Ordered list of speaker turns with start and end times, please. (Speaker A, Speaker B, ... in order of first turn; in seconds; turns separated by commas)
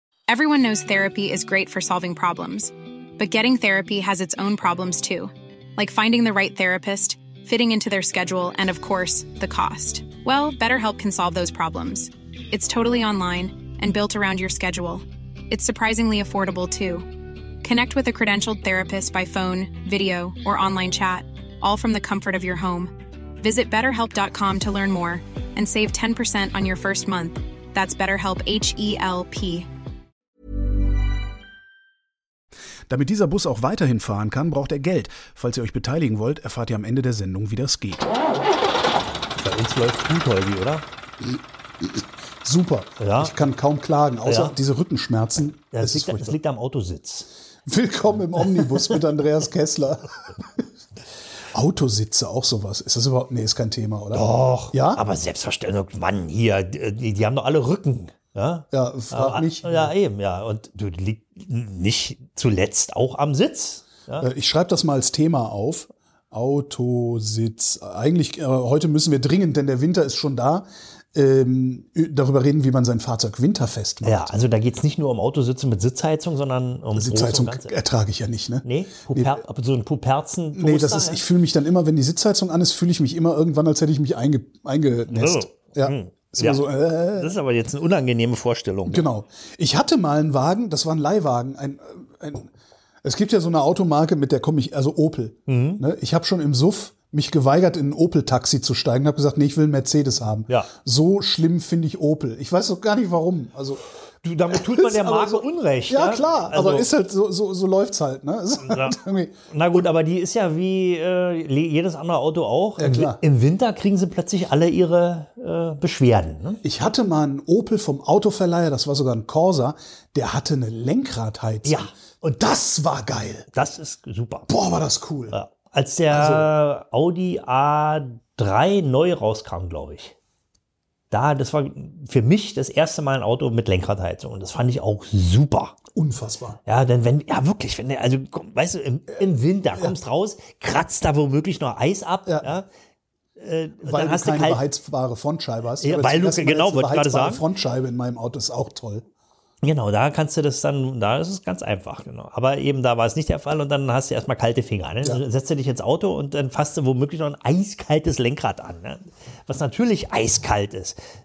Speaker A: 0.3-17.1, Speaker A: 17.6-29.7, Speaker B: 32.9-38.0, Speaker C: 39.4-40.8, Speaker B: 41.2-46.4, Speaker C: 43.0-43.4, Speaker C: 44.2-44.5, Speaker C: 45.7-47.3, Speaker B: 47.6-50.7, Speaker B: 51.5-55.0, Speaker C: 54.1-64.3, Speaker B: 58.7-59.9, Speaker B: 64.2-74.5, Speaker C: 74.0-77.8, Speaker B: 77.0-79.4, Speaker C: 78.6-81.2, Speaker B: 80.5-87.3, Speaker C: 85.1-89.0, Speaker B: 88.8-92.5, Speaker B: 93.0-103.8, Speaker C: 95.5-95.8, Speaker C: 104.2-106.8, Speaker B: 104.5-109.4, Speaker C: 108.6-109.0, Speaker C: 109.5-116.6, Speaker B: 112.8-113.2, Speaker B: 116.6-123.5, Speaker C: 121.6-122.4, Speaker C: 123.5-124.5, Speaker B: 124.5-125.3, Speaker C: 125.3-130.2, Speaker B: 126.1-126.5, Speaker C: 131.1-135.8, Speaker B: 135.9-136.6, Speaker C: 136.7-142.7, Speaker B: 142.2-142.5, Speaker C: 143.4-144.6, Speaker B: 143.8-149.1, Speaker C: 145.8-147.4, Speaker C: 149.6-161.0